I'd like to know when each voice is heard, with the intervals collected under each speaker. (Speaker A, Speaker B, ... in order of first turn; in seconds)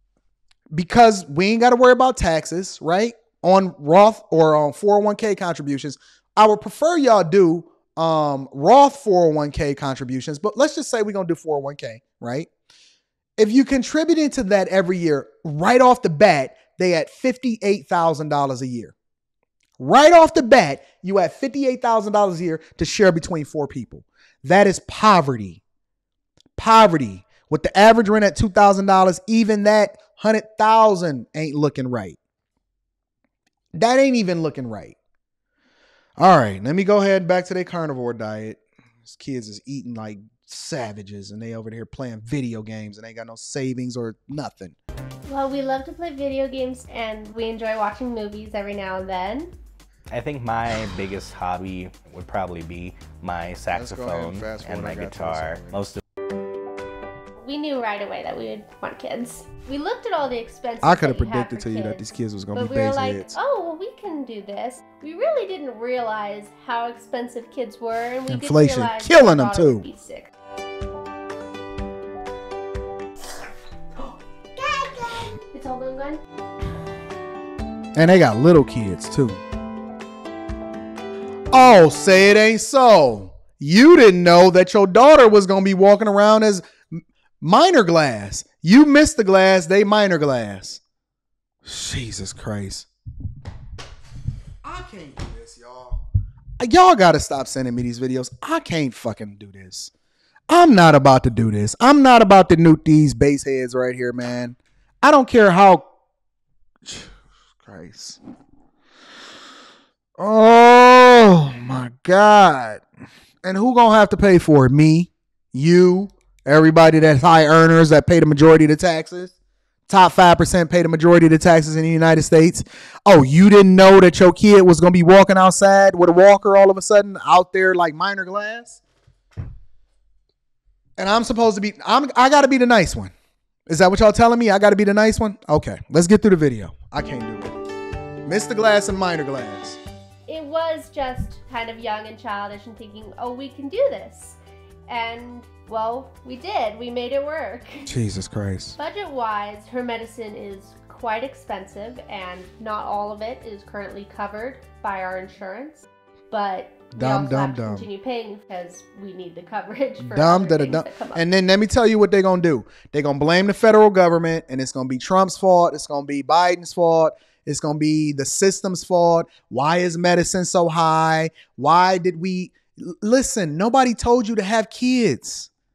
Speaker A: 0.7-12.5, 13.4-18.9, 19.8-25.6, 26.6-32.2, 33.7-35.0, 36.2-44.8, 53.7-55.8, 60.8-63.3, 68.3-69.8, 78.0-79.4, 81.5-90.8, 91.6-92.9, 94.6-96.0, 96.6-99.9, 100.5-105.9, 106.8-108.2, 110.2-112.8, 113.4-119.3, 119.9-128.8, 131.0-133.1, 133.7-137.5, 138.2-139.8, 147.9-148.8, 156.9-157.9, 160.0-175.5
Speaker B: 45.3-49.5, 57.4-70.3, 74.6-76.2, 140.3-147.9, 148.8-161.2
Speaker C: 50.1-56.0